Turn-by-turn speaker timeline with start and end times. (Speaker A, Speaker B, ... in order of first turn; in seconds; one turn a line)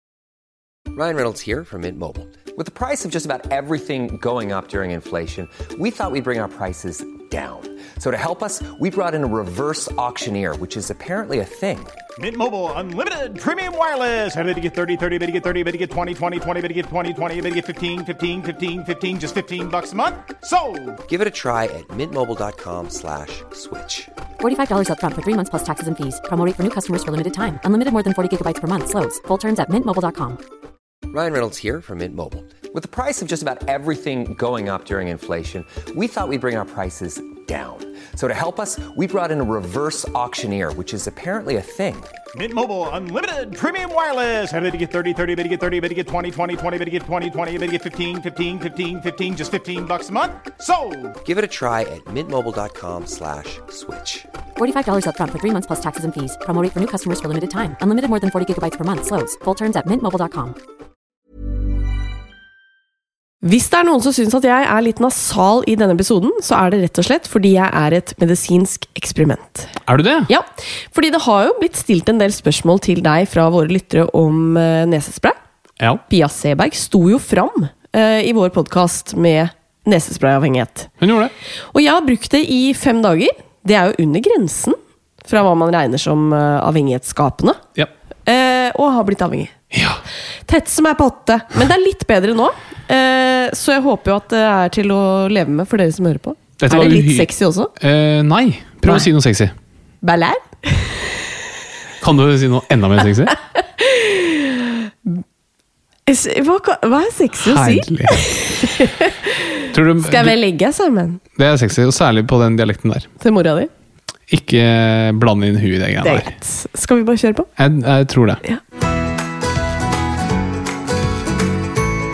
Speaker A: 0.9-11.9
Speaker B: 12.2-21.0
Speaker A: 21.1-24.1
Speaker C: 24.4-30.4
Speaker A: 31.1-42.1
Speaker B: 42.3-51.2
Speaker A: 51.2-54.3
Speaker C: 54.6-60.5
Speaker D: 63.4-69.8
Speaker E: 69.9-70.3
Speaker D: 70.3-75.4
Speaker D: 76.1-80.9
Speaker E: 81.0-81.3
Speaker D: 81.7-87.6
Speaker D: 88.3-89.5
Speaker E: 89.7-90.0
Speaker D: 90.5-97.7
Speaker E: 96.6-99.5
Speaker D: 100.0-101.2
Speaker E: 102.0-103.4
Speaker D: 103.5-105.2
Speaker D: 106.1-111.2
Speaker E: 107.4-108.4
Speaker E: 109.7-110.4
Speaker E: 111.3-113.1
Speaker D: 113.2-113.7
Speaker E: 114.3-116.3
Speaker D: 116.0-117.5
Speaker E: 117.6-118.4